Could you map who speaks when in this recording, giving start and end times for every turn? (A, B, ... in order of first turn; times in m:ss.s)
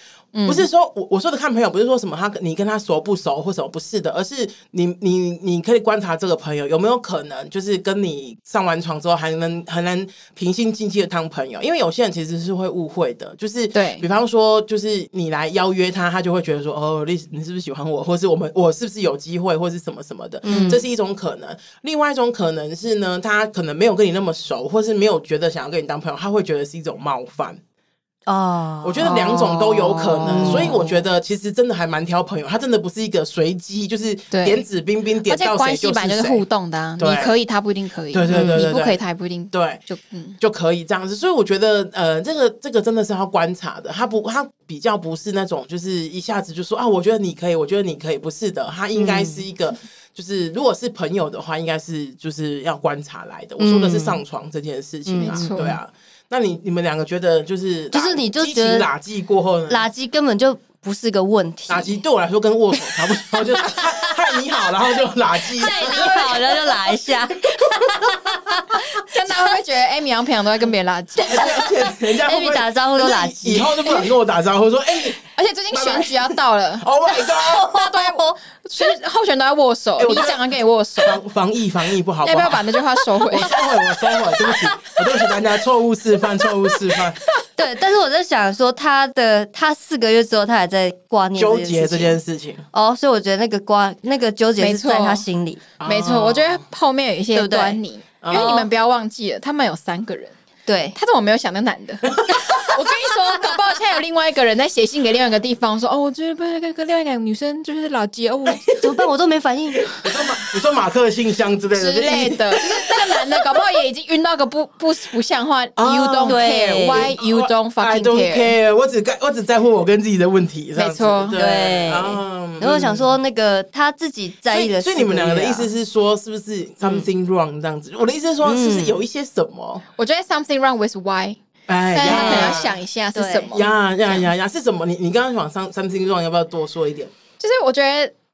0:00.3-0:00.7 A
0:00.5-0:27.6 B
0:13.7-0:14.1 A
0:20.4-0:20.8 C
0:20.5-0:20.8 A
0:28.3-0:31.0 C
0:28.8-0:36.4 B
0:29.0-0:29.7 A
0:30.2-0:30.7 A
0:34.3-0:34.6 A
0:35.2-0:40.4 A
0:37.0-0:37.4 B
0:38.1-0:39.0 B
0:38.3-0:38.7 C
0:39.5-0:39.8 B
0:40.4-0:59.9 B
0:48.9-0:49.5 C
0:53.6-0:54.2 C
0:55.1-0:55.8 C
0:55.2-0:55.8 A
0:57.9-0:58.9 C
0:59.7-1:02.0 C
1:01.7-1:06.1 B
1:02.7-1:04.2 C
1:05.5-1:09.0 C
1:05.6-1:06.8 A
1:09.1-1:11.7 A
1:11.2-1:17.7 B
1:12.1-1:13.8 C
1:15.3-1:16.9 A
1:17.1-1:18.4 C
1:17.7-1:21.2 A
1:20.0-1:20.4 B
1:21.0-1:22.6 B
1:22.2-1:23.5 A
1:23.3-1:27.2 B
1:23.3-1:25.4 C
1:26.4-1:26.8 C
1:27.5-1:32.2 C
1:31.4-1:32.7 B
1:32.7-1:35.6 C
1:34.6-1:35.3 A
1:35.8-1:36.6 B
1:35.8-1:40.4 A
1:37.3-1:37.8 C
1:38.2-1:38.5 B
1:38.3-1:38.7 C
1:40.7-1:41.0 C
1:41.0-1:48.7 A
1:48.8-1:49.9 C
1:49.9-1:52.7 B
1:51.7-1:58.6 A
1:55.8-2:03.1 B
1:56.2-1:57.1 C
2:00.8-2:01.4 A
2:01.4-2:05.7 C
2:04.5-2:09.8 B
2:06.8-2:07.1 C
2:08.4-2:09.0 C
2:10.0-2:14.3 A
2:11.7-2:12.8 B
2:12.0-2:13.6 C
2:13.5-2:17.1 B
2:17.4-2:18.1 A